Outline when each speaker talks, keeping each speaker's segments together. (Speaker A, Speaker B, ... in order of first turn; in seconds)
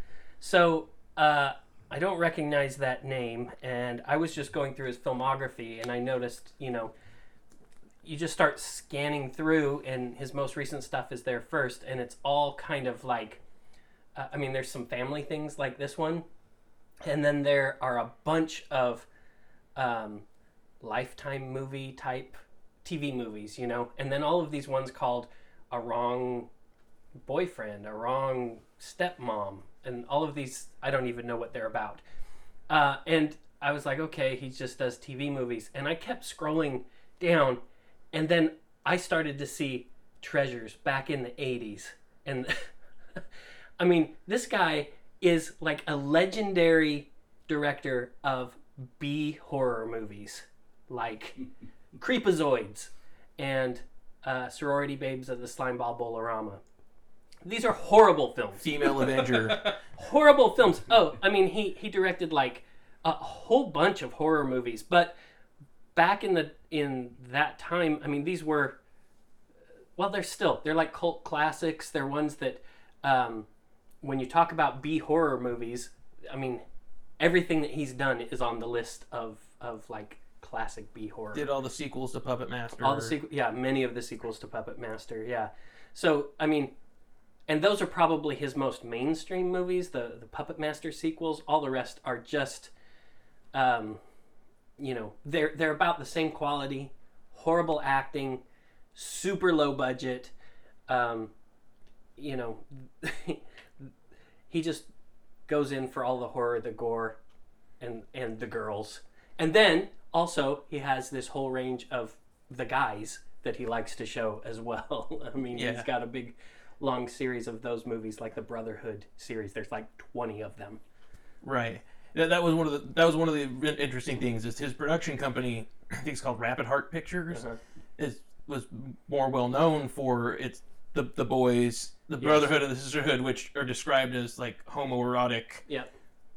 Speaker A: 0.4-6.9, 8.0-13.4, 14.2-16.2, 17.0-19.1, 19.8-20.2, 20.8-26.5, 27.2-32.0, 32.7-37.6, 38.1-43.2, 43.8-51.4, 51.9-56.6, 57.4-58.7, 59.9-65.2, 65.9-68.8, 70.0-73.5, 74.0-76.6, 77.2-81.5, 82.8-86.7, 87.5-92.7, 93.5-94.0, 94.8-98.4, 98.9-100.3, 100.9-101.3, 102.2-103.9, 104.5-104.9, 105.5-107.2, 107.8-120.8, 132.2-132.5
Speaker B: 58.6-59.7, 81.3-83.2, 115.5-115.9, 121.4-127.5, 128.0-135.6